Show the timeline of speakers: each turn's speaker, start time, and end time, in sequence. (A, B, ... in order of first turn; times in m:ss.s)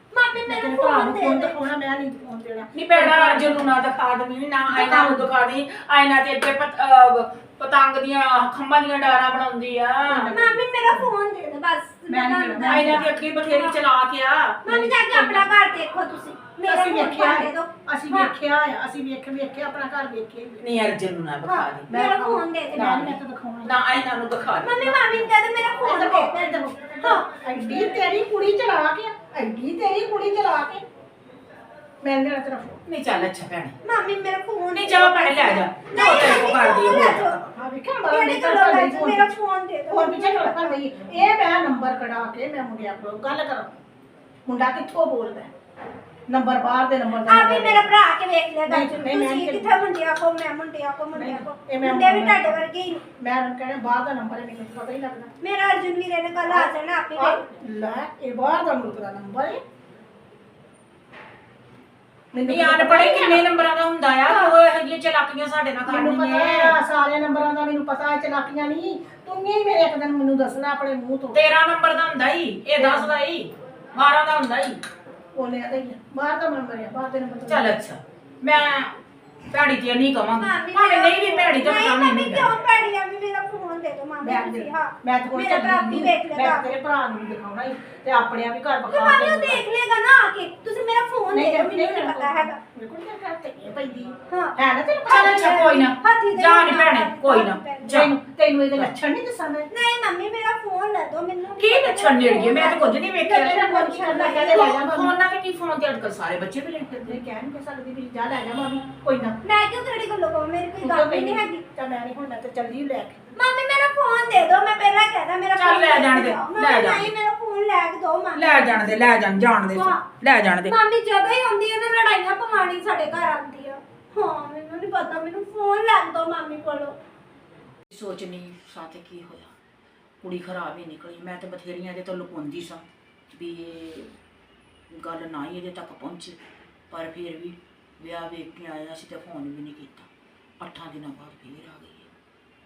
0:00.1-0:01.6 A
0:00.4-0:03.8 B
0:02.7-0:10.3 C
0:04.7-0:05.2 B
0:10.0-0:11.1 B
0:10.2-0:13.8 A
0:12.1-0:13.1 B
0:12.6-0:15.4 C
0:14.6-0:18.3 A
0:16.6-0:20.6 B
0:20.6-0:21.9 C
0:21.4-0:23.8 B
0:21.9-0:23.0 A
0:22.7-0:25.3 C
0:24.6-0:27.2 A
0:25.8-0:30.8 B
0:32.0-0:32.8 B
0:32.8-0:33.8 C
0:33.8-0:37.4 A
0:34.7-0:37.5 C
0:37.5-0:39.3 B
0:38.1-0:41.0 A
0:39.9-0:43.8 B
0:44.5-0:45.5 B
0:46.3-0:47.9 B
0:47.3-0:53.0 A
0:48.7-0:49.8 B
0:51.1-0:52.6 B
0:53.2-0:55.3 B
0:55.4-0:57.4 A
0:56.5-0:59.6 B
1:02.3-1:03.4 B
1:02.4-1:06.8 C
1:03.0-1:03.4 A
1:04.3-1:04.6 A
1:05.8-1:11.4 B
1:11.3-1:14.8 C
1:12.8-1:13.1 B
1:15.4-1:17.8 B
1:17.5-1:18.9 C
1:19.5-1:22.5 C
1:20.3-1:26.6 A
1:24.2-1:29.6 B
1:28.9-1:32.6 A
1:31.3-1:35.8 B
1:34.3-1:34.6 A
1:35.1-1:38.2 C
1:35.1-1:38.0 A
1:37.9-1:39.7 B
1:39.7-1:44.6 A
1:41.6-1:43.6 C
1:43.3-1:45.2 B
1:44.4-1:47.2 C
1:47.0-1:49.4 B
1:49.4-1:51.6 A
1:50.8-1:53.2 B
1:53.4-1:59.1 A
1:55.6-1:57.1 C
1:58.3-2:00.7 C
1:59.6-2:00.0 A
2:00.6-2:07.0 A
2:07.9-2:09.5 C
2:10.2-2:14.1 C
2:14.9-2:16.4 C
2:16.9-2:20.1 C
2:20.6-2:22.1 C